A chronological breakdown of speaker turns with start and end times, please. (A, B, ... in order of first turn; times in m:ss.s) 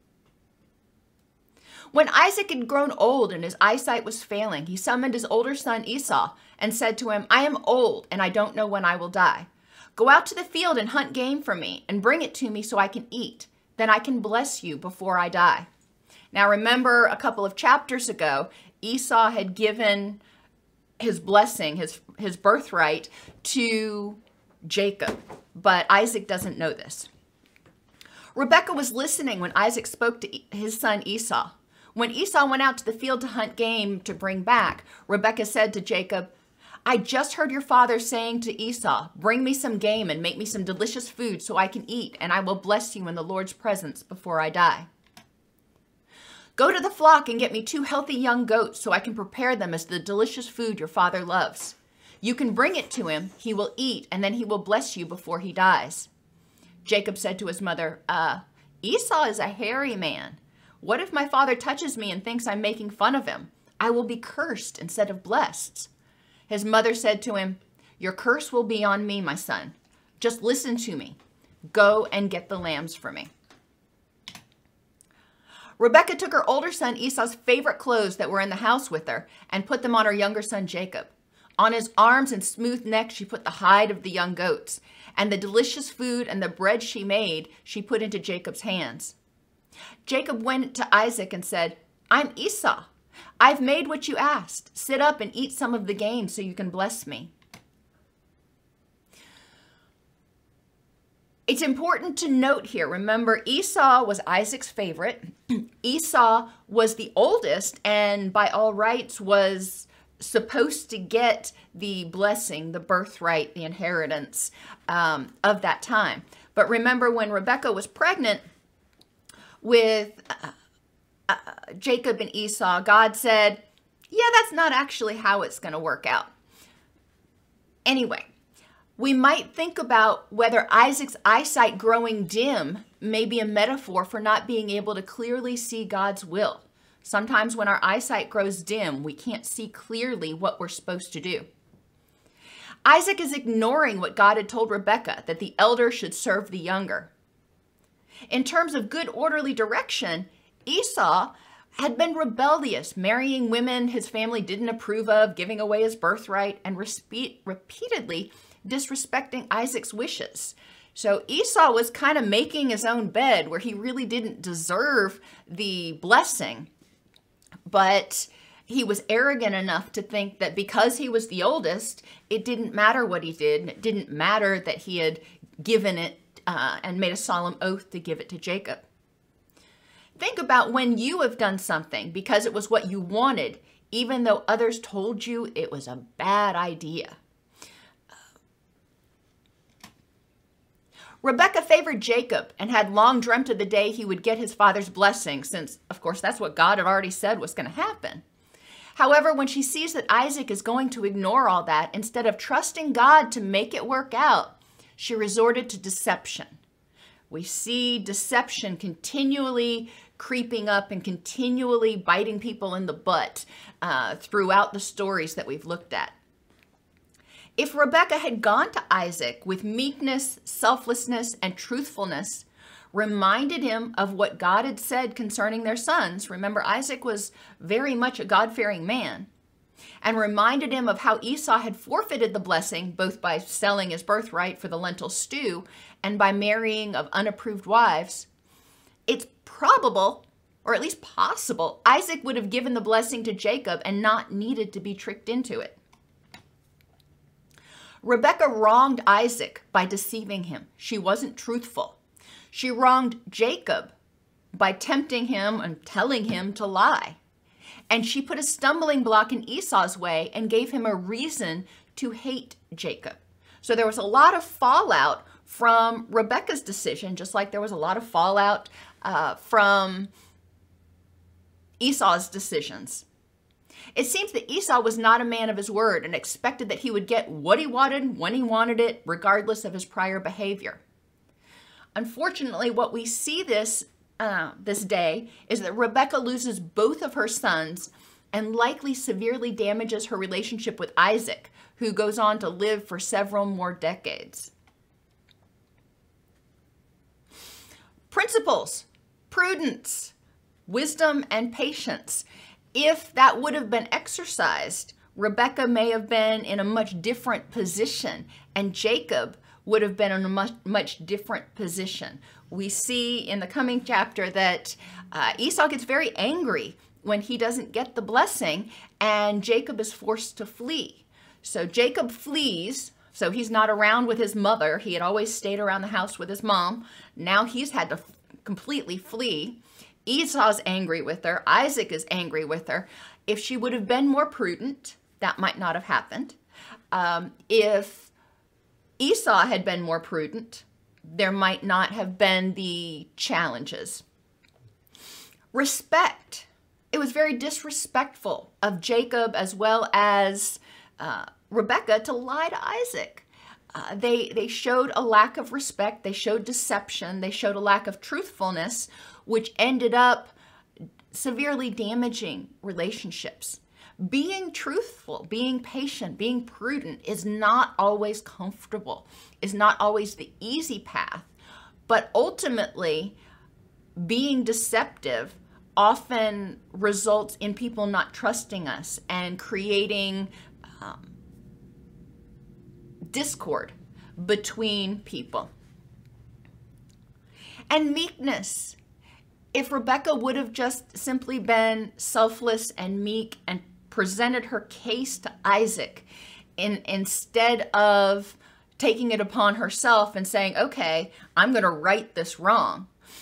0:01.9-0:15.7 A
0:16.3-0:20.2 A
0:21.0-0:27.1 A
0:28.4-0:36.3 A
0:36.9-0:44.9 A
0:46.6-0:56.1 A
0:56.8-1:05.9 A
1:06.5-1:11.2 A
1:11.7-1:13.3 A
1:15.8-1:29.2 A
1:30.1-1:32.9 A
1:33.4-1:37.3 A
1:41.5-1:58.4 A
1:59.6-2:00.5 A
2:01.3-2:06.3 A
2:07.9-2:08.3 A
2:09.0-2:21.5 A
2:22.8-2:27.1 A
2:28.3-2:46.7 A
2:47.7-2:58.8 A
3:00.2-3:07.2 A
3:11.2-3:18.2 A
3:19.0-3:26.6 A
3:27.3-3:36.2 A
3:37.6-3:49.3 A
3:50.0-3:58.3 A
3:59.1-4:05.8 A
4:08.0-4:12.0 A
4:12.5-4:13.9 A
4:14.6-4:17.2 A
4:17.9-4:30.1 A
4:31.8-4:33.1 A
4:34.0-4:40.8 A
4:42.0-4:54.5 A
4:58.1-5:00.1 A
5:00.7-5:36.4 A
5:36.9-5:38.1 A
5:39.0-5:44.0 A
5:45.5-6:00.3 A
6:01.1-6:11.3 A
6:11.9-6:13.2 A
6:14.0-6:21.1 A
6:23.1-6:25.5 A
6:27.7-6:28.8 A
6:29.5-6:36.1 A
6:36.6-6:42.9 A